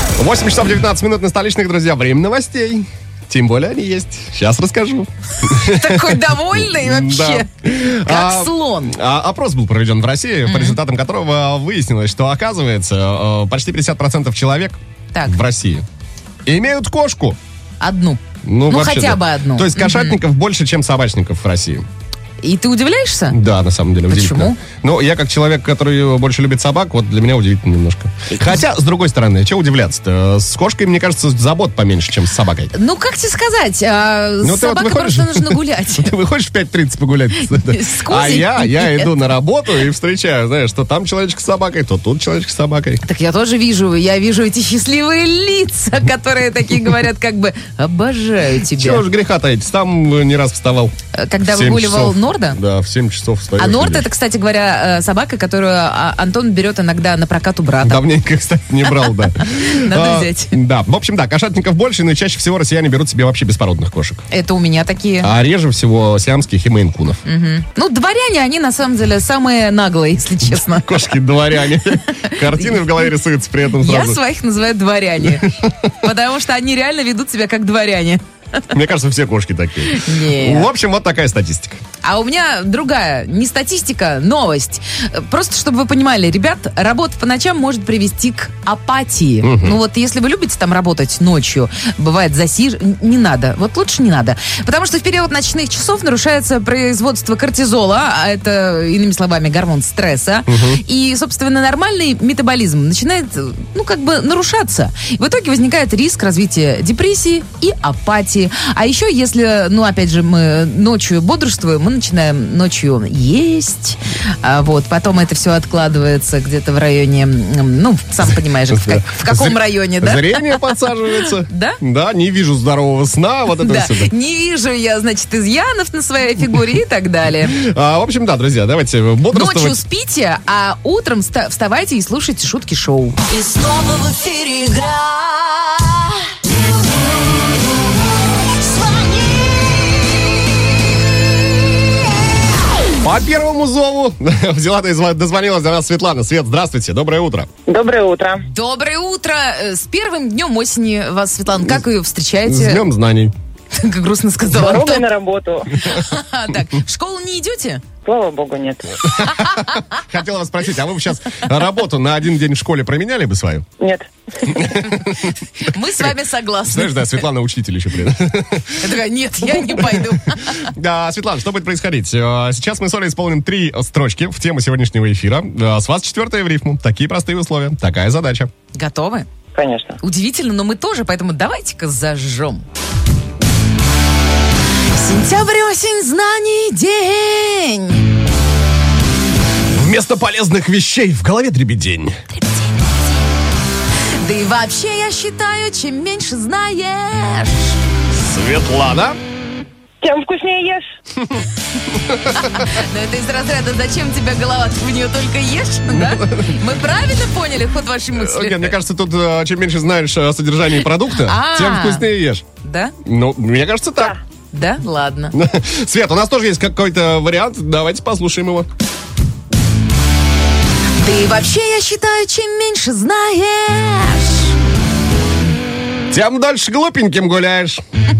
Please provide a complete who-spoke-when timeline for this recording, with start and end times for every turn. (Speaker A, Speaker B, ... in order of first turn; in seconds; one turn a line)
Speaker A: 0.2-15.8
Speaker B: 5.5-9.0
Speaker B: 10.4-10.8
Speaker A: 16.4-17.4
Speaker B: 17.8-20.2
Speaker A: 18.4-21.9
Speaker B: 22.4-23.4
Speaker A: 23.3-32.7
Speaker B: 24.1-24.6
Speaker B: 32.7-36.1
Speaker A: 34.4-43.0
Speaker B: 37.4-39.1
Speaker B: 43.0-49.0
Speaker A: 48.6-54.1
Speaker B: 51.1-52.6
Speaker B: 53.6-58.0
Speaker A: 57.8-64.2
Speaker B: 58.9-60.6
Speaker B: 64.3-65.3
Speaker A: 65.2-67.2
Speaker B: 67.2-71.1
Speaker A: 70.6-74.2
Speaker B: 71.7-73.1
Speaker B: 73.8-75.5
Speaker A: 75.2-75.9
Speaker B: 76.0-78.2
Speaker A: 78.7-81.8
Speaker B: 79.8-80.7
Speaker B: 82.0-121.8
Speaker A: 89.4-89.8
Speaker A: 100.5-100.8
Speaker A: 118.7-124.1
Speaker B: 123.6-127.6
Speaker A: 127.5-129.8
Speaker B: 129.3-133.2
Speaker C: 133.3-136.1
Speaker C: 137.1-140.2
Speaker A: 143.0-147.5
Speaker D: 147.7-148.4
Speaker B: 148.5-152.8
Speaker A: 152.4-153.3
Speaker B: 153.7-155.0
Speaker D: 154.5-155.9
Speaker B: 155.8-157.8
Speaker D: 158.0-159.1
Speaker A: 159.2-163.7
Speaker B: 159.2-159.8
Speaker D: 163.8-164.1
Speaker A: 164.4-165.3
Speaker B: 164.8-167.2
Speaker A: 166.7-168.8
Speaker B: 168.8-170.7
Speaker A: 169.5-178.5
Speaker B: 178.7-179.3
Speaker D: 179.5-180.0
Speaker B: 180.0-182.6
Speaker B: 184.9-188.1
Speaker A: 189.7-192.2
Speaker B: 194.2-197.8
Speaker A: 198.1-199.2
Speaker D: 200.0-200.8
Speaker A: 201.2-202.6
Speaker B: 202.3-208.7
Speaker A: 205.9-206.6
Speaker A: 208.1-212.4
Speaker B: 211.1-212.1
Speaker B: 212.6-212.9
Speaker A: 213.0-214.2
Speaker B: 214.5-215.3
Speaker A: 215.3-218.7
Speaker B: 221.0-224.5
Speaker A: 226.1-227.8